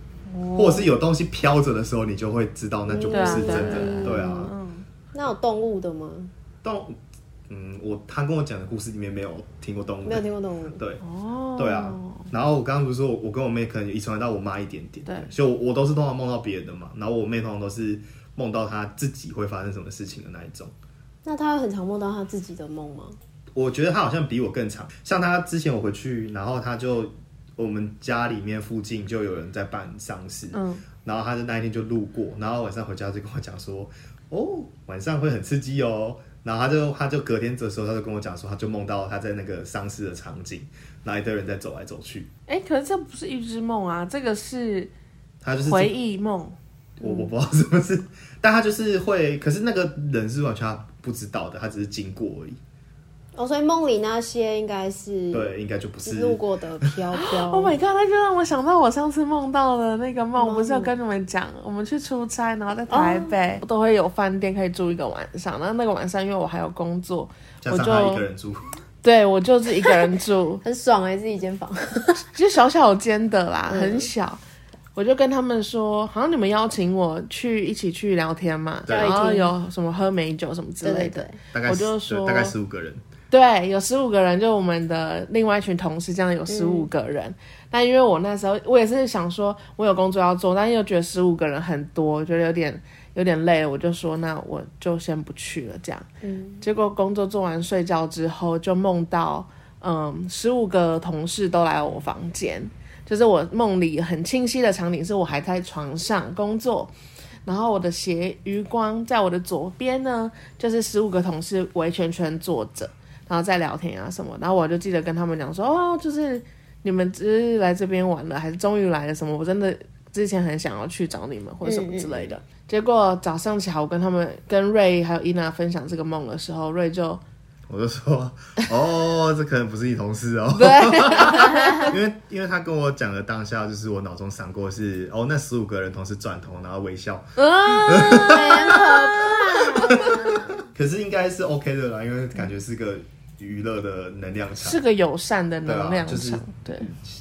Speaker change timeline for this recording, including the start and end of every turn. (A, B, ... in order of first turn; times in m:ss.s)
0:00.3-0:00.9 A
0:00.5-0:04.5 B
0:02.9-0:04.5 C
0:03.1-0:04.8 A
0:05.1-0:06.3 C
0:06.6-0:07.0 B
0:07.5-0:10.2 B
0:10.0-0:10.8 C
0:11.0-0:12.3 A
0:11.6-0:20.7 B
0:21.2-0:23.2 C
0:23.5-0:42.3 B
0:30.5-0:30.8 A
0:42.5-0:44.9 A
0:45.4-0:45.9 B
0:45.6-0:46.6 A
0:47.0-0:52.6 B
0:53.3-0:57.8 C
0:55.3-0:56.9 B
0:57.1-1:08.2 A
1:00.4-1:00.9 C
1:02.9-1:03.3 C
1:07.6-1:08.7 B
1:09.0-1:10.6 A
1:10.6-1:12.2 C
1:12.3-1:14.4 A
1:13.7-1:14.1 C
1:15.0-1:22.5 A
1:18.9-1:19.2 B
1:18.9-1:19.5 C
1:20.8-1:21.4 C
1:21.5-1:23.0 B
1:23.3-1:36.1 A
1:26.5-1:26.9 C
1:36.2-1:36.6 C
1:36.6-1:46.9 A
1:47.4-2:07.2 A
2:01.6-2:02.3 C
2:07.7-2:24.8 B
2:10.6-2:11.9 A
2:11.4-2:11.9 C
2:17.4-2:20.1 A
2:18.0-2:20.3 C
2:24.6-2:26.9 A
2:25.6-2:27.0 B